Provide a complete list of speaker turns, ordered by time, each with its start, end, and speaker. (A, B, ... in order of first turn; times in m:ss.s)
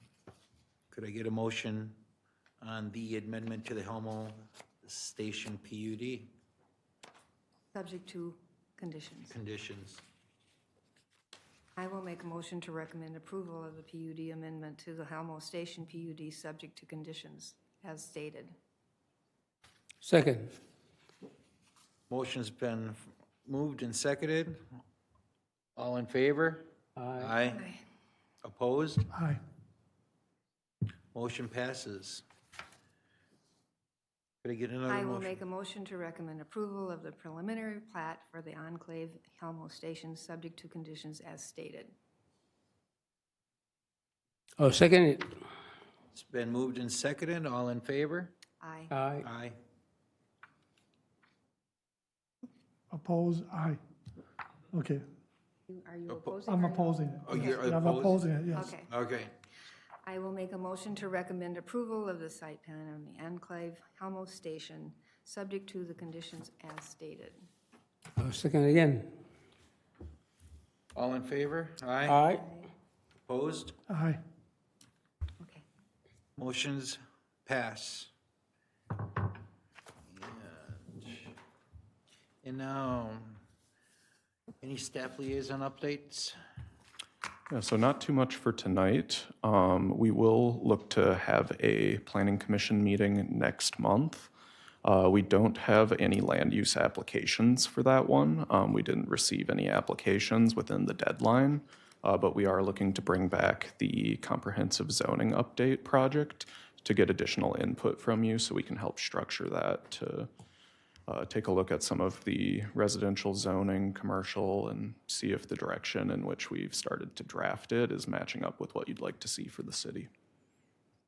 0:00.9-0:02.0 A
0:02.6-0:06.3 A
0:07.7-0:09.4 B
0:09.3-0:10.0 A
0:11.8-0:18.5 B
0:20.0-0:20.5 C
0:22.1-0:24.6 A
0:25.8-0:27.7 A
0:27.0-0:27.3 C
0:28.4-0:29.1 A
0:29.1-0:29.4 D
0:31.1-0:32.2 A
0:34.4-0:35.4 A
0:34.9-0:41.9 B
0:44.6-0:45.3 C
0:46.1-0:48.3 A
0:48.6-0:49.0 B
0:48.9-0:49.2 C
0:49.2-0:49.6 A
0:52.9-0:53.8 D
0:54.7-0:55.0 D
0:55.7-0:57.7 B
0:56.1-0:56.4 A
0:56.5-0:58.7 D
0:57.2-0:59.3 A
0:58.5-0:58.9 B
1:00.0-1:07.4 B
1:08.2-1:09.1 C
1:10.9-1:12.2 A
1:12.1-1:12.4 C
1:12.2-1:12.7 B
1:13.2-1:13.8 A
1:13.9-1:14.2 D
1:16.4-1:18.1 A
1:20.0-1:21.3 A
1:22.4-1:23.4 A
1:24.6-1:26.4 A
1:27.5-1:34.3 E
1:34.8-1:50.3 E
1:51.1-2:00.1 E